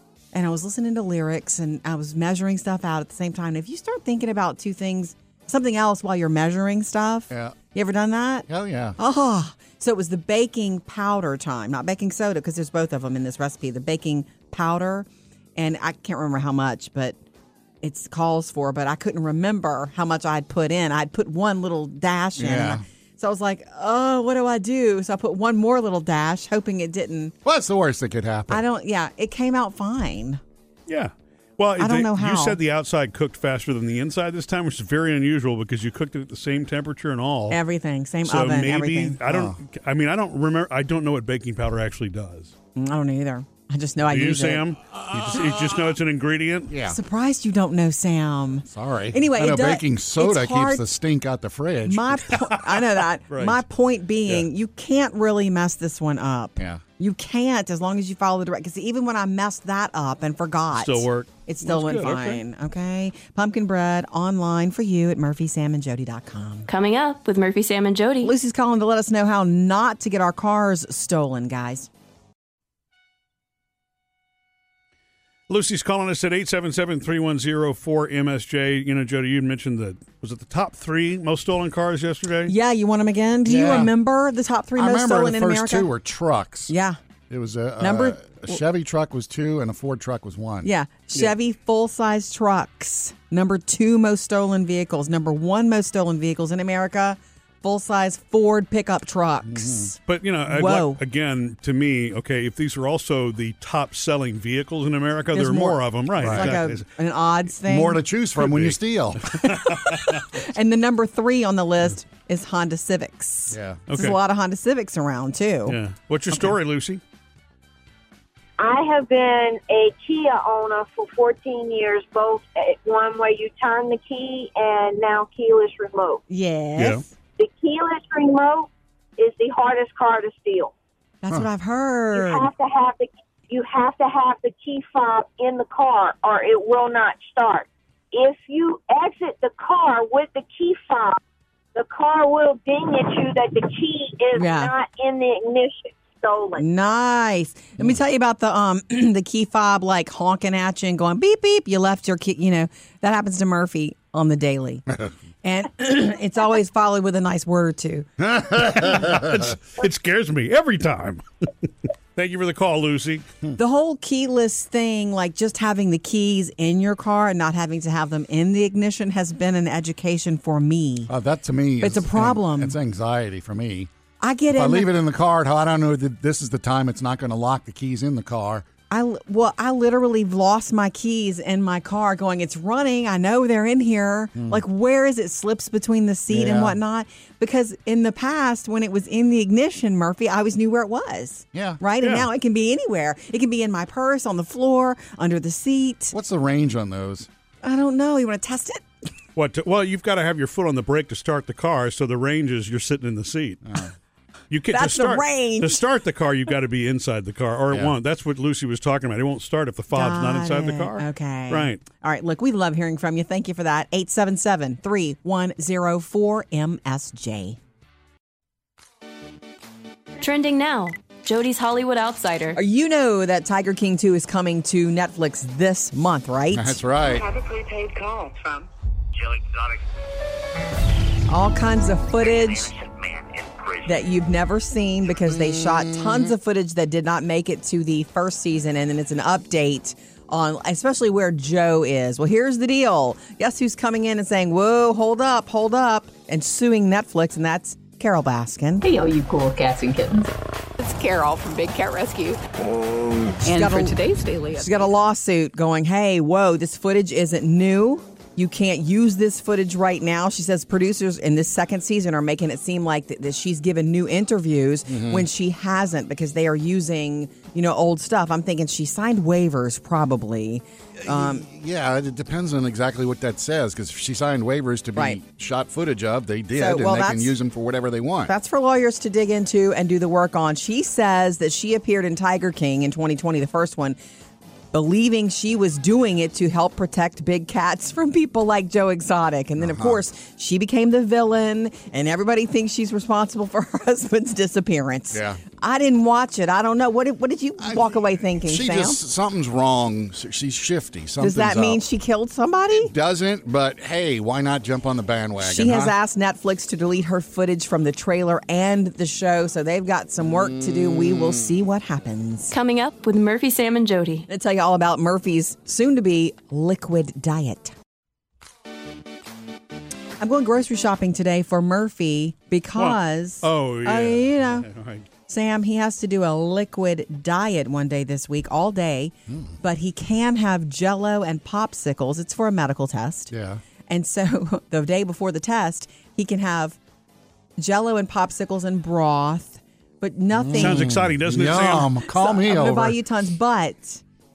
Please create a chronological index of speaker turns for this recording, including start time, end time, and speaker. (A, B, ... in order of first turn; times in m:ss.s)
0:00.3-0:08.5 A
0:07.3-0:07.6 B
0:08.5-0:09.0 B
0:09.0-0:17.2 A
0:17.8-0:27.3 A
0:22.4-0:22.8 B
0:27.4-0:28.6 B
0:28.5-0:30.4 A
0:30.9-0:37.6 C
0:31.8-0:32.6 A
0:37.5-0:39.2 A
0:38.2-0:42.5 C
0:39.3-0:39.6 B
0:42.8-0:44.6 A
0:44.1-0:46.7 C
0:45.2-0:45.5 B
0:46.7-0:47.0 B
0:46.9-0:50.9 A
0:48.7-0:52.4 B
0:51.8-1:06.7 A
0:53.3-0:53.6 C
0:56.6-0:56.8 B
1:00.7-1:02.4 C
1:06.7-1:08.3 D
1:08.2-1:11.9 A
1:15.5-1:22.5 C
1:22.5-1:25.9 A
1:23.5-1:23.9 B
1:24.8-1:26.7 B
1:26.7-1:27.0 A
1:27.3-1:30.7 B
1:27.8-1:28.6 A
1:30.6-1:40.0 A
1:39.5-1:39.9 B
1:40.1-1:46.8 C
1:40.5-1:41.0 A
1:45.3-1:48.0 A
1:46.2-1:46.6 B
1:47.6-1:49.3 B
1:48.4-1:48.8 C
1:49.4-1:50.2 C
1:49.4-1:55.8 A
1:53.5-1:53.8 B
1:53.9-1:54.2 C
1:55.7-1:57.0 C
1:58.6-2:06.2 E
2:06.3-2:07.1 A
2:07.4-2:10.7 E
2:11.2-2:12.5 A
2:12.1-2:21.2 E
2:21.7-2:26.6 E
2:24.4-2:24.7 A
2:26.6-2:34.8 A
2:35.4-2:38.1 A
2:38.2-2:39.5 B
2:38.6-2:41.2 C
2:42.2-2:43.2 C
2:43.6-2:51.1 A
2:51.1-2:53.9 B
2:51.8-2:52.8 A
2:54.2-2:54.9 A
2:54.5-2:58.7 B
2:58.9-3:16.2 A
3:04.4-3:04.6 B
3:06.3-3:06.8 B
3:11.5-3:11.8 B
3:12.0-3:12.3 C
3:16.1-3:17.3 B
3:17.6-3:18.8 A
3:19.4-3:23.6 C
3:23.6-3:23.9 B
3:24.5-3:31.8 C
3:24.7-3:25.8 A
3:29.9-3:37.6 A
3:40.2-3:42.6 D
3:42.5-3:46.8 A
3:46.5-3:47.2 B
3:47.0-3:49.8 F
3:51.3-3:52.7 A
3:52.2-3:54.1 F
3:53.8-4:08.8 A
3:55.3-3:56.3 B
4:08.8-4:14.9 G
4:13.4-4:14.0 A
4:14.5-4:31.5 A
4:24.9-4:25.3 B
4:31.0-4:38.3 B
4:36.6-4:37.4 A
4:38.3-4:44.0 A
4:44.7-4:59.0 A
4:49.6-4:50.0 B
4:55.1-4:55.4 B
4:57.6-5:01.8 B
5:01.2-5:02.9 A
5:02.7-5:06.0 B
5:05.4-5:12.5 A
5:10.7-5:11.3 B
5:12.5-5:14.3 D
5:14.3-5:17.7 A
5:20.2-5:24.7 A
5:22.8-5:25.1 C
5:25.3-5:33.3 A
5:29.3-5:29.6 B
5:33.3-5:33.6 B
5:33.9-5:36.8 A
5:37.6-5:40.9 A
5:40.3-5:43.0 B
5:40.6-5:42.0 C
5:42.0-5:44.0 A